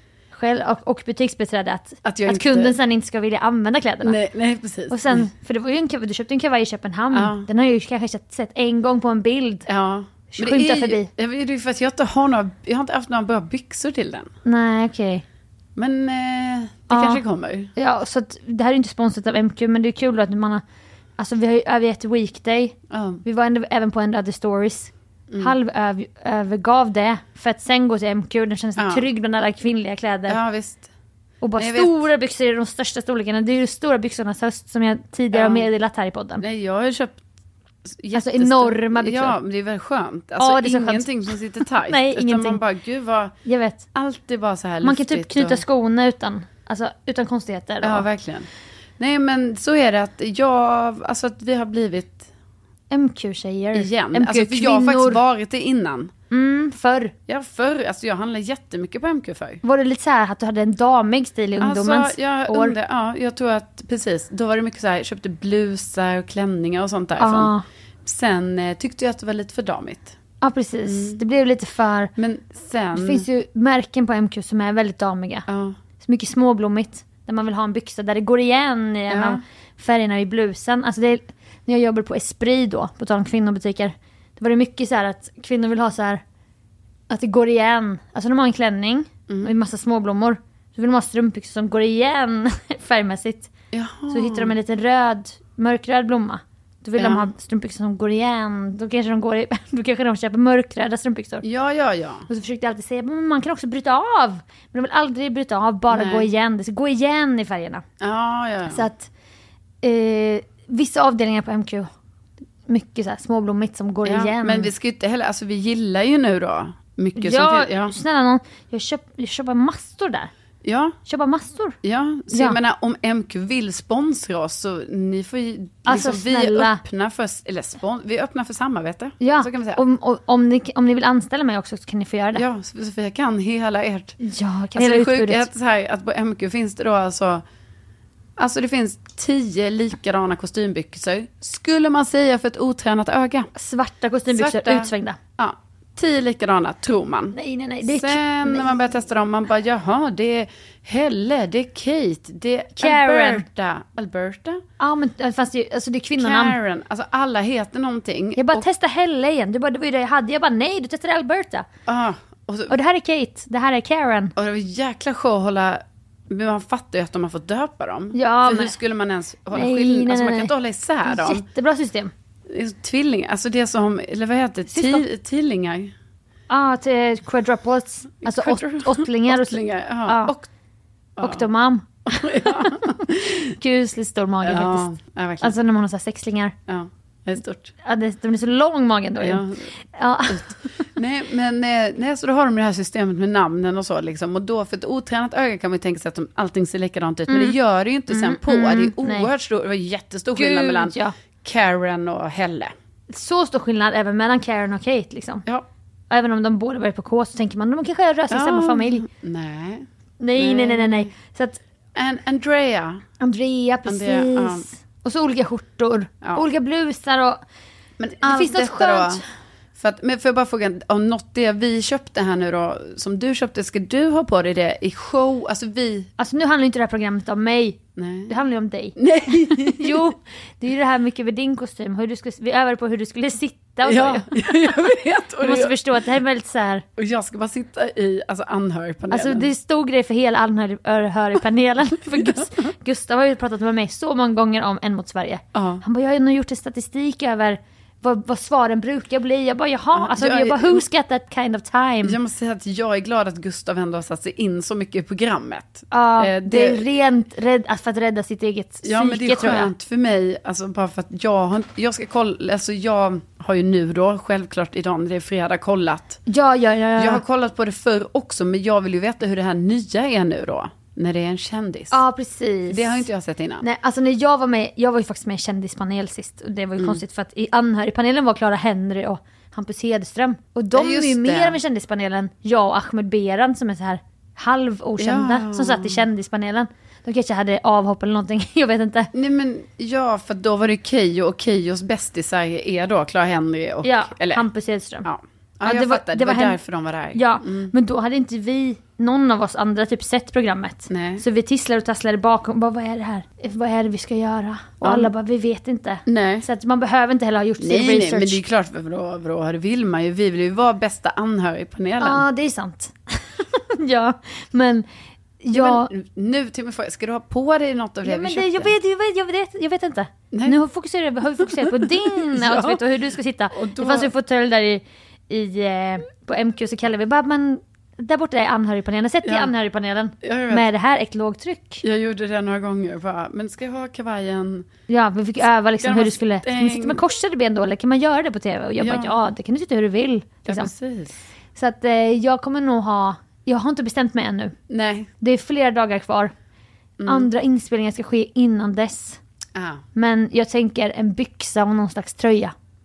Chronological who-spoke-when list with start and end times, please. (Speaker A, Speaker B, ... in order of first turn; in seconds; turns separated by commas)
Speaker A: 0.3-4.2, Speaker B: 2.0-2.8, Speaker B: 4.0-5.3, Speaker A: 4.9-9.7, Speaker B: 7.1-7.5, Speaker B: 9.7-14.3, Speaker A: 10.3-11.1, Speaker A: 14.4-15.2, Speaker B: 15.8-17.7, Speaker A: 16.9-17.2, Speaker A: 17.8-20.6, Speaker A: 21.2-30.4, Speaker B: 22.9-23.2, Speaker B: 28.8-29.1, Speaker B: 30.3-30.9, Speaker A: 31.4-36.4, Speaker B: 31.6-32.0, Speaker B: 35.3-35.7, Speaker B: 36.4-37.2, Speaker B: 37.9-43.4, Speaker A: 38.1-39.4, Speaker A: 40.4-42.6, Speaker A: 43.5-43.9, Speaker B: 43.9-45.6, Speaker A: 44.8-48.1, Speaker B: 47.8-52.3, Speaker A: 52.9-55.2, Speaker B: 53.7-56.1, Speaker A: 56.3-57.1, Speaker B: 57.3-59.6, Speaker A: 59.6-62.8, Speaker B: 61.6-67.5, Speaker A: 67.2-67.6, Speaker B: 68.0-70.2, Speaker A: 70.4-72.1, Speaker B: 70.9-71.2, Speaker B: 72.2-73.2, Speaker A: 72.9-75.5, Speaker B: 75.5-75.8, Speaker A: 76.0-86.2, Speaker B: 79.1-79.4, Speaker A: 87.1-93.5, Speaker B: 89.3-89.5, Speaker B: 93.7-94.5, Speaker A: 94.1-101.5, Speaker B: 97.0-97.3, Speaker B: 101.4-102.3, Speaker A: 102.3-107.8, Speaker B: 105.9-106.3, Speaker B: 108.0-108.8, Speaker A: 108.7-109.1, Speaker A: 109.8-111.9, Speaker A: 112.7-114.7, Speaker B: 114.1-117.9, Speaker A: 117.2-120.3, Speaker B: 120.6-121.0, Speaker A: 121.1-121.8, Speaker B: 121.8-129.8, Speaker A: 122.3-122.6, Speaker A: 125.9-126.8, Speaker A: 129.2-132.4, Speaker B: 132.3-134.2, Speaker A: 134.2-135.5, Speaker B: 134.8-137.4, Speaker B: 138.4-143.5, Speaker A: 143.6-145.2, Speaker B: 144.3-154.6, Speaker A: 147.3-148.7, Speaker A: 152.8-153.5, Speaker A: 154.8-156.6, Speaker B: 156.2-158.7, Speaker A: 158.4-161.7, Speaker B: 161.9-162.7, Speaker A: 162.7-164.3, Speaker B: 164.4-171.4, Speaker A: 168.1-168.8, Speaker A: 169.5-170.5, Speaker A: 171.1-172.1, Speaker B: 172.5-175.9, Speaker A: 174.7-175.1, Speaker A: 176.5-180.3, Speaker B: 178.2-180.5, Speaker B: 181.2-181.4, Speaker A: 181.2-182.7, Speaker B: 182.1-183.5, Speaker A: 183.6-184.9, Speaker B: 184.4-185.5, Speaker A: 185.4-186.5, Speaker B: 186.7-187.7, Speaker A: 187.8-190.8, Speaker B: 189.2-189.7, Speaker B: 190.3-202.7, Speaker A: 197.3-197.6, Speaker A: 198.1-199.3, Speaker A: 200.3-201.1, Speaker A: 203.1-205.4, Speaker A: 206.1-209.1, Speaker B: 208.3-209.9, Speaker A: 210.2-211.6, Speaker B: 210.4-211.1, Speaker B: 212.0-213.0, Speaker A: 213.2-217.4, Speaker B: 213.9-214.7, Speaker B: 218.0-219.2, Speaker A: 218.2-219.2, Speaker B: 219.8-226.1, Speaker A: 226.2-229.0, Speaker B: 228.0-228.3, Speaker B: 229.0-230.0, Speaker A: 229.5-234.8, Speaker B: 233.8-235.8, Speaker A: 235.4-236.8, Speaker B: 237.0-239.5, Speaker A: 239.1-252.2, Speaker B: 242.2-242.4, Speaker B: 245.5-245.8, Speaker B: 249.9-250.8, Speaker B: 252.0-256.8, Speaker A: 255.9-259.7, Speaker B: 258.8-266.2, Speaker A: 266.3-267.2, Speaker B: 267.0-272.0, Speaker A: 271.9-273.1, Speaker B: 272.7-273.6, Speaker A: 273.6-289.1, Speaker B: 280.7-281.6, Speaker B: 285.0-286.0, Speaker B: 289.1-294.5, Speaker A: 293.8-295.1, Speaker B: 295.1-297.7, Speaker A: 295.6-296.6, Speaker A: 297.1-308.4, Speaker B: 300.9-301.2, Speaker B: 304.8-305.1, Speaker B: 306.1-306.5, Speaker B: 307.6-312.2, Speaker A: 312.0-314.9, Speaker A: 315.4-315.9, Speaker B: 315.5-318.7, Speaker A: 318.0-331.8, Speaker B: 320.3-320.6, Speaker B: 321.5-322.8, Speaker B: 323.5-324.1, Speaker B: 329.2-329.5, Speaker B: 330.2-330.7, Speaker B: 331.8-334.7, Speaker A: 334.9-340.7, Speaker B: 335.8-337.0, Speaker B: 338.8-339.1, Speaker B: 340.5-341.2, Speaker A: 341.6-344.6, Speaker B: 344.7-345.1, Speaker A: 345.2-346.3, Speaker B: 347.0-347.3, Speaker A: 347.1-349.2, Speaker B: 349.6-349.8, Speaker A: 349.9-352.5